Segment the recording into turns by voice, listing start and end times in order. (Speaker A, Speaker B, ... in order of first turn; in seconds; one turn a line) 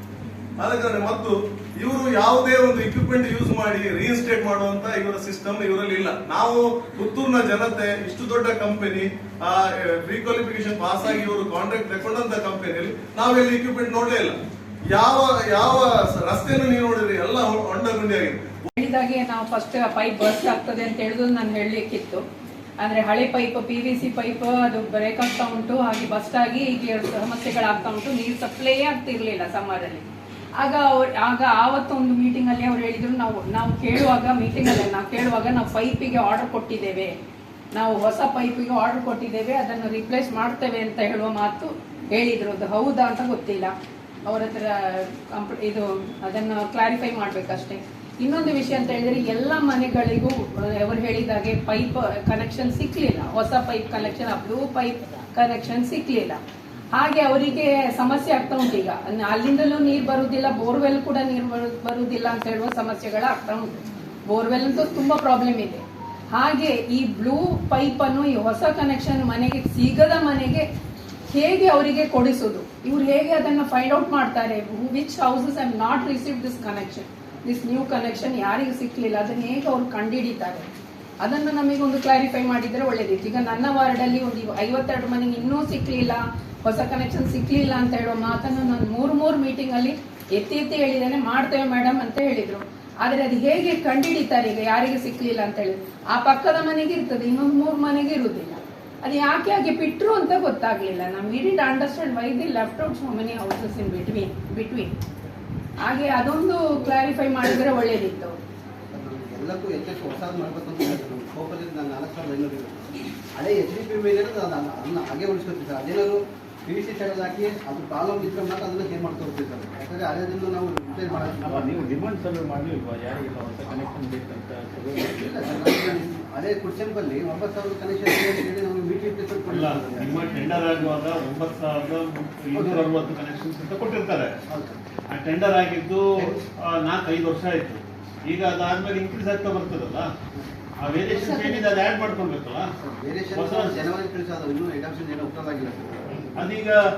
Speaker A: 0.6-14.4
Speaker A: 14.9-18.7
Speaker B: 18.8-22.2
Speaker B: 22.8-30.1
Speaker B: 30.6-37.1
Speaker B: 37.7-43.7
Speaker B: 44.3-56.4
Speaker B: 57.0-63.7
Speaker B: 64.3-65.8
Speaker B: 66.3-70.6
Speaker B: 71.3-80.7
Speaker B: 81.2-104.9
Speaker B: 105.8-108.4
Speaker C: 108.9-121.9
Speaker D: 121.5-125.2
Speaker C: 125.0-130.4
Speaker E: 129.5-134.3
Speaker C: 132.5-132.9
Speaker C: 134.5-134.8
Speaker E: 135.1-140.1
Speaker E: 140.8-142.7
Speaker C: 141.1-141.8
Speaker C: 142.8-146.3
Speaker E: 143.3-143.8
Speaker E: 146.3-146.8